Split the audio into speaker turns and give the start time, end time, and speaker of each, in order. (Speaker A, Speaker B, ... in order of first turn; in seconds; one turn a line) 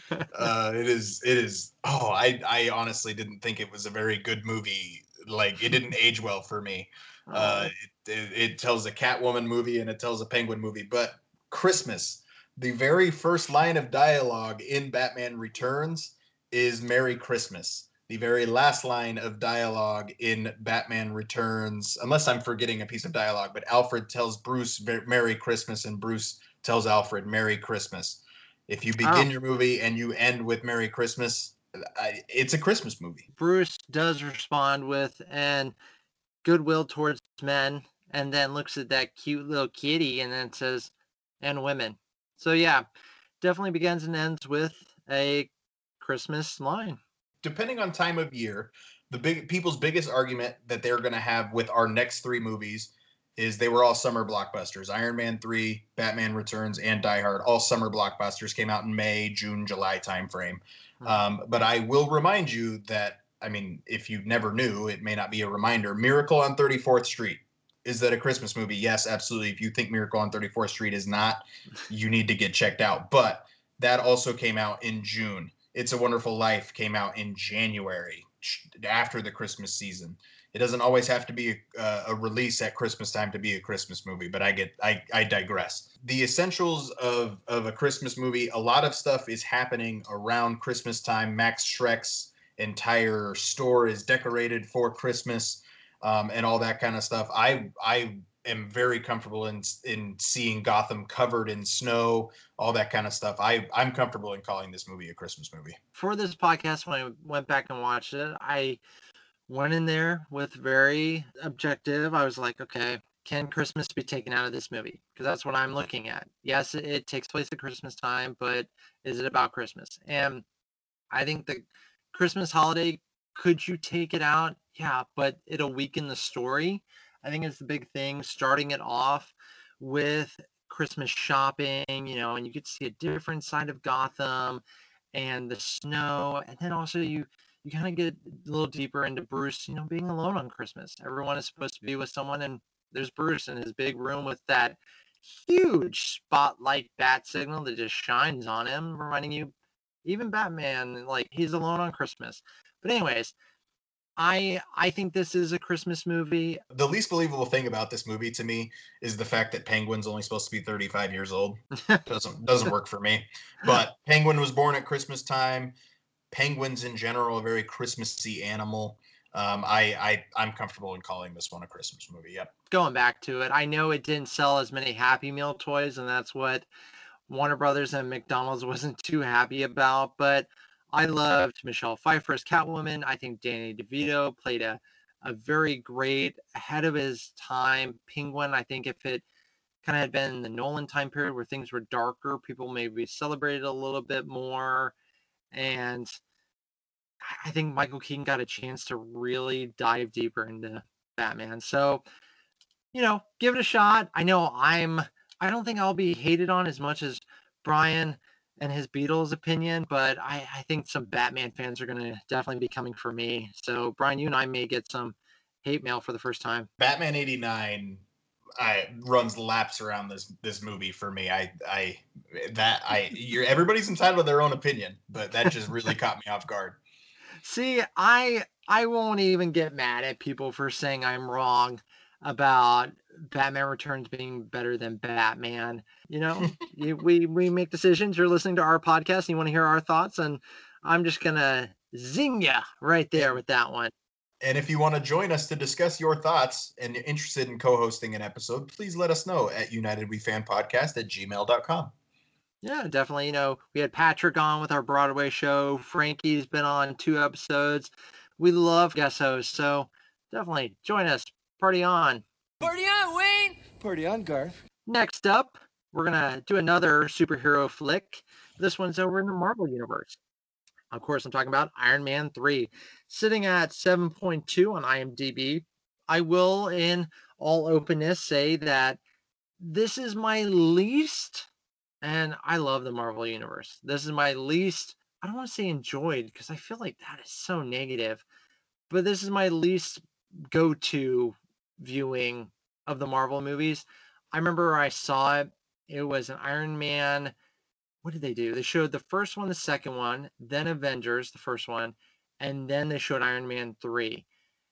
Speaker A: 0.3-33.2
Speaker B: 7.3-7.7
Speaker B: 29.0-29.3
Speaker B: 33.4-35.8
Speaker B: 36.4-42.9
Speaker B: 43.4-47.0
Speaker A: 47.4-105.8
Speaker B: 106.0-108.8
Speaker B: 109.5-120.5
Speaker B: 121.1-134.6
Speaker B: 135.1-149.5
Speaker B: 150.1-153.3
Speaker B: 154.2-156.6
Speaker A: 156.7-165.8
Speaker A: 166.3-172.5
Speaker B: 172.7-176.7
Speaker B: 177.3-189.2
Speaker B: 189.8-194.9
Speaker B: 195.5-196.2
Speaker B: 197.2-202.0
Speaker B: 202.9-216.7
Speaker A: 216.8-218.0
Speaker A: 218.6-226.8
Speaker B: 227.4-243.9
Speaker A: 244.4-251.9
Speaker B: 252.6-262.2
Speaker C: 262.6-264.6
Speaker B: 264.9-270.2
Speaker B: 270.9-279.0
Speaker B: 279.6-281.5
Speaker B: 282.0-288.2
Speaker B: 288.9-297.3
Speaker B: 298.0-304.2